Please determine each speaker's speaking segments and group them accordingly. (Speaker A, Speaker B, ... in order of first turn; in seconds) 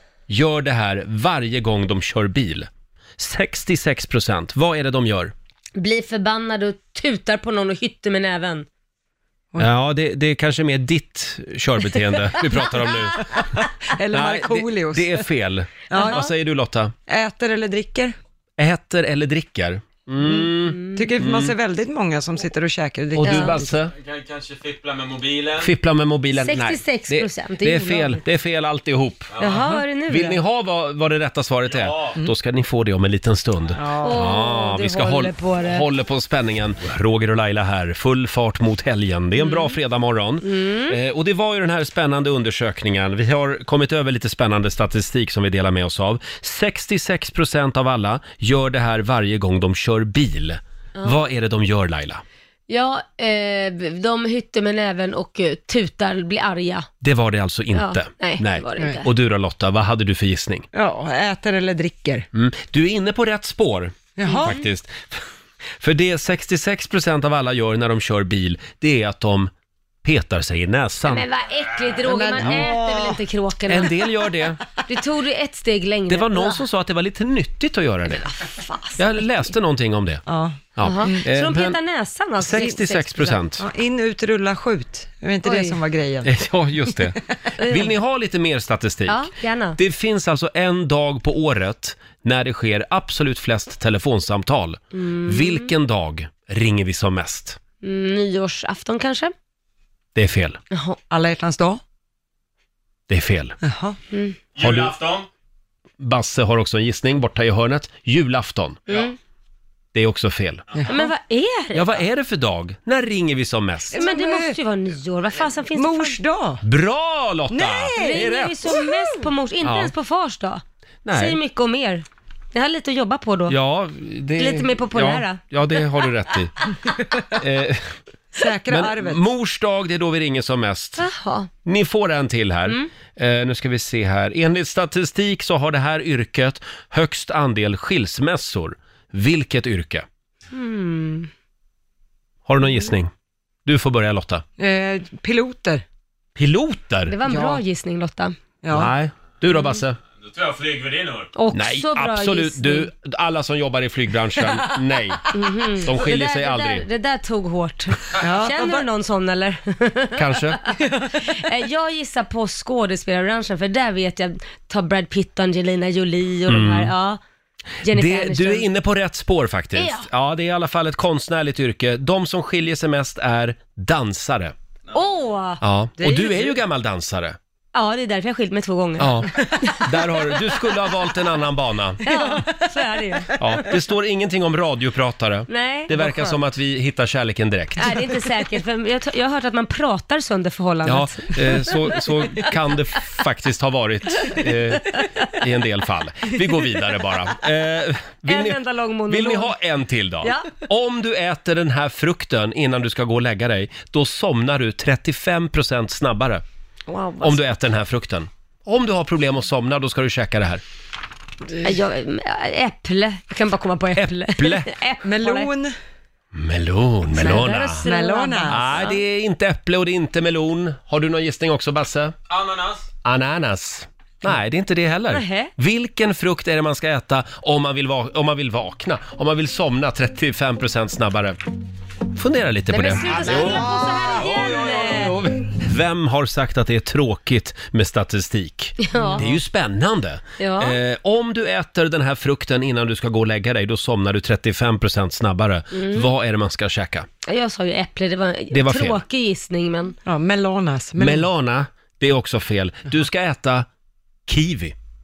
Speaker A: 0.3-5.3, 9.6-13.2, 14.1-16.9, 18.6-21.6, 23.1-23.9, 25.6-29.4, 30.1-52.2, 57.0-60.7, 62.3-65.2, 65.8-69.5, 70.0-71.2, 72.4-72.7, 73.7-74.6, 76.1-78.3, 79.0-80.2, 80.7-81.8, 82.4-83.7, 86.2-89.2, 89.8-97.6, 100.2-100.6, 103.1-103.6, 104.6-105.0, 106.0-108.8, 109.9-110.7, 111.7-114.0, 116.6-118.6, 119.6-119.9, 121.1-121.4, 123.5-126.5, 127.3-127.9, 128.7-131.0, 131.7-140.1, 142.5-143.1, 143.7-144.4, 146.4-147.1, 148.7-150.0, 151.5-156.9, 160.2-160.6, 166.5-166.9, 167.9-174.6, 175.6-177.4, 179.0-182.0, 183.4-187.9, 190.8-206.4, 207.2-210.6, 214.0-214.8, 216.3-217.9, 218.5-222.2, 223.0-231.4, 232.1-247.1, 248.5-249.0, 251.0-253.7, 254.3-254.8
Speaker B: 5.8-8.7, 20.7-21.1, 23.2-23.6, 26.4-28.2, 29.4-30.4, 34.0-35.9, 39.4-39.8, 40.4-41.0, 52.7-56.9, 57.7-59.1, 64.3-64.6, 71.1-74.1, 74.9-76.6, 78.2-79.4, 80.8-83.4, 85.4-85.8, 87.6-88.0, 89.1-89.8, 94.9-95.7, 97.8-99.3, 100.7-101.0, 104.1-104.4, 108.9-109.2, 110.9-112.0, 113.9-116.2, 118.0-120.6, 121.1-123.6, 124.4-125.4, 131.0-131.5, 140.5-141.3, 147.1-148.4, 151.3-152.9, 155.3-167.2, 167.8-168.7, 169.8-170.1, 174.9-175.6, 177.7-179.8, 182.0-183.4, 185.5-186.4, 187.8-191.8, 198.2-199.6, 200.2-200.5, 206.9-207.5, 211.6-215.5, 217.2-219.0, 225.1-225.5, 232.7-235.2, 238.8-239.3, 240.4-240.8, 245.7-246.1, 247.3-250.0
Speaker C: 13.3-15.3, 15.9-16.3, 17.1-18.2, 20.2-23.7, 29.4-29.8, 33.8-34.2, 58.8-59.0, 60.7-62.3, 64.2-64.5, 72.0-73.2, 80.3-81.2, 83.6-86.3, 101.1-101.8, 103.6-104.0, 110.8-111.1, 113.9-114.6, 115.7-116.6, 117.5-119.2, 126.9-127.3, 128.3-129.2, 144.6-145.8, 147.2-147.6, 148.6-148.9, 158.2-158.9, 176.0-176.6, 179.4-179.7, 182.0-183.0, 215.0-215.7, 217.2-218.9, 250.1-251.3
Speaker D: 23.9-25.7, 31.8-32.1, 104.6-105.3, 150.2-151.3, 222.3-222.9